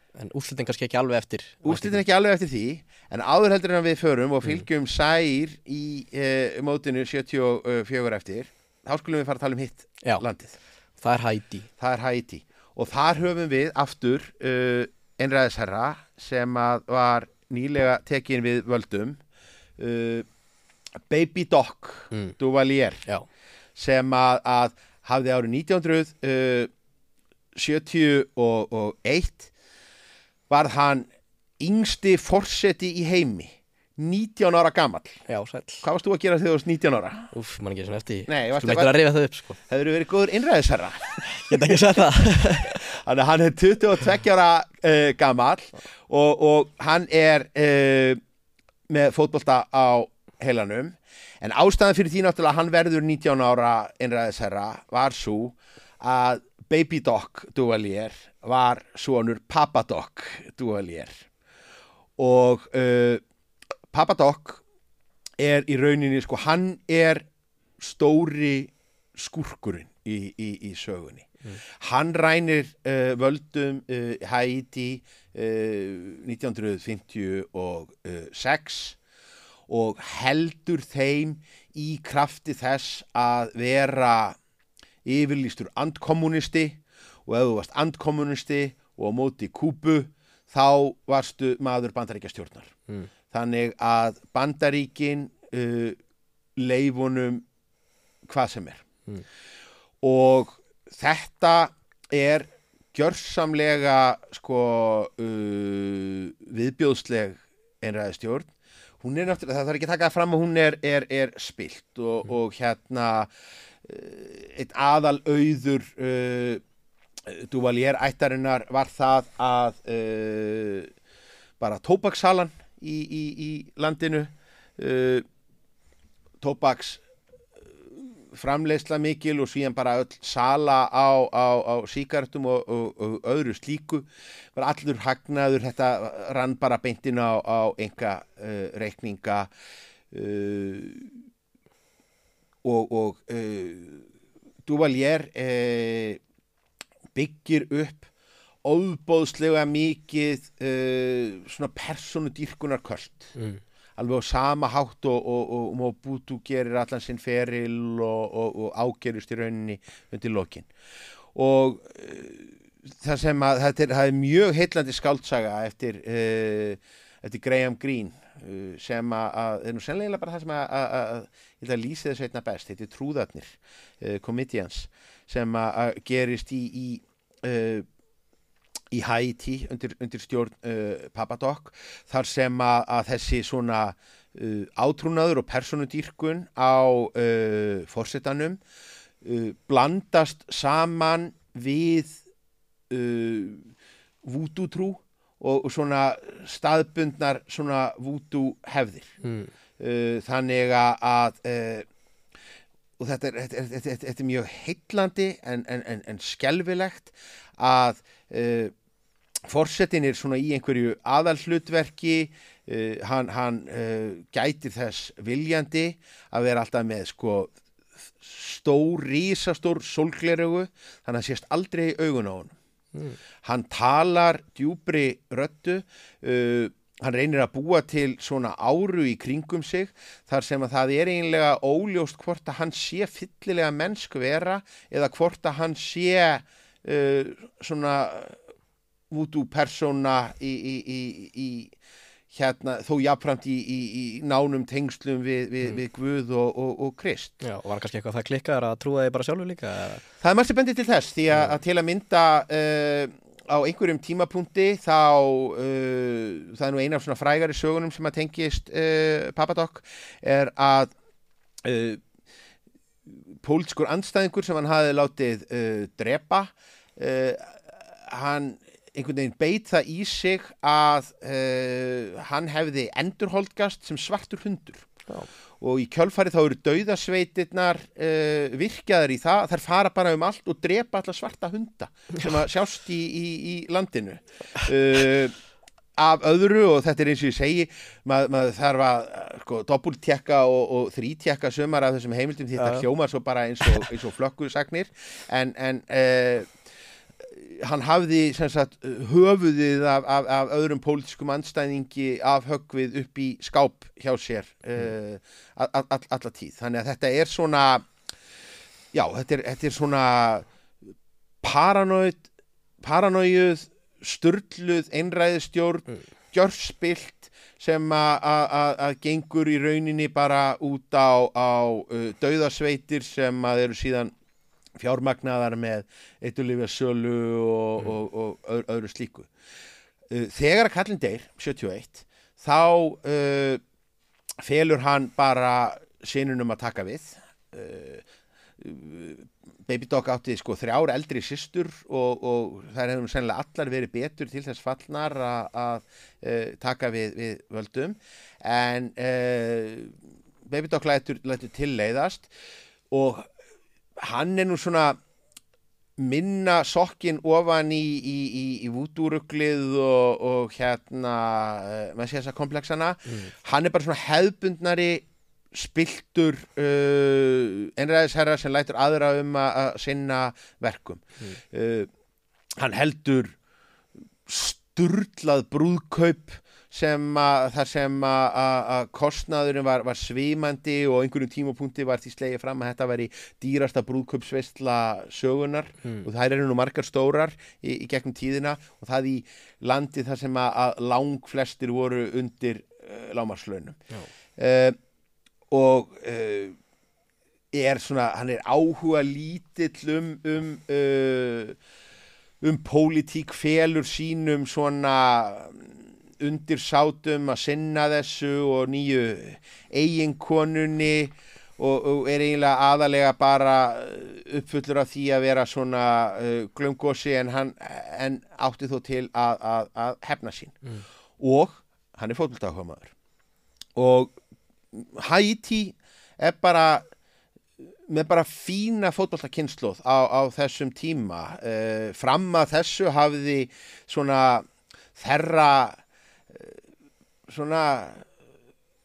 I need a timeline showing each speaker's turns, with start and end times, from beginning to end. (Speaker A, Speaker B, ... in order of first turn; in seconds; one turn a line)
Speaker A: 0.1-2.0
Speaker B: 1.6-10.6
Speaker A: 11.0-11.7
Speaker B: 11.8-19.2
Speaker B: 19.8-20.3
Speaker B: 21.1-23.1
Speaker B: 23.8-26.7
Speaker B: 27.6-29.5
Speaker B: 30.5-31.1
Speaker B: 31.6-35.2
Speaker A: 35.3-35.9
Speaker B: 35.8-37.3
Speaker A: 37.3-39.6
Speaker B: 38.3-39.0
Speaker B: 39.7-41.9
Speaker A: 41.4-42.8
Speaker B: 42.6-48.2
Speaker B: 48.9-61.2
Speaker B: 62.2-63.2
Speaker B: 63.9-64.6
Speaker B: 65.4-67.3
Speaker B: 67.8-79.0
Speaker B: 79.7-84.4
Speaker B: 85.0-92.7
Speaker B: 93.3-96.0
Speaker B: 96.6-97.5
Speaker B: 98.2-98.8
Speaker B: 100.0-113.3
Speaker B: 113.8-116.6
Speaker B: 117.3-120.9
Speaker B: 121.6-125.2
Speaker B: 126.4-127.0
Speaker B: 127.9-139.5
Speaker B: 140.1-141.1
Speaker B: 142.6-144.1
Speaker B: 144.6-146.2
Speaker B: 147.1-148.1
Speaker B: 148.6-153.3
Speaker A: 153.3-153.6
Speaker B: 154.0-160.7
Speaker B: 161.3-177.9
Speaker B: 178.9-188.6
Speaker B: 189.2-192.2
Speaker B: 192.9-193.7
Speaker B: 194.2-199.1
Speaker A: 199.2-199.5
Speaker B: 199.8-201.9
Speaker B: 203.0-208.7
Speaker B: 209.5-217.5
Speaker B: 218.2-222.6
Speaker B: 223.4-238.4
Speaker B: 239.1-241.7
Speaker B: 242.3-247.3
Speaker A: 247.4-250.0
Speaker B: 250.2-260.9
Speaker A: 251.3-251.6
Speaker B: 261.6-262.0
Speaker B: 263.1-274.9
Speaker B: 275.6-285.4
Speaker B: 286.0-296.5
Speaker A: 292.6-292.9
Speaker B: 297.2-307.9
Speaker B: 308.9-310.5
Speaker B: 311.4-312.3
Speaker B: 312.8-324.1
Speaker B: 324.8-329.3
Speaker B: 330.1-333.6
Speaker B: 334.4-338.1
Speaker B: 338.6-352.3
Speaker B: 352.9-353.3
Speaker B: 354.0-355.0
Speaker B: 356.0-371.9
Speaker A: 363.1-363.3
Speaker B: 372.6-373.4
Speaker B: 374.3-393.8
Speaker B: 394.4-394.8
Speaker B: 395.5-396.6
Speaker B: 397.5-401.6
Speaker B: 402.4-420.6
Speaker B: 421.2-422.9
Speaker B: 423.8-424.1
Speaker B: 424.7-426.8
Speaker B: 427.9-435.8
Speaker B: 436.3-436.6
Speaker B: 437.3-438.1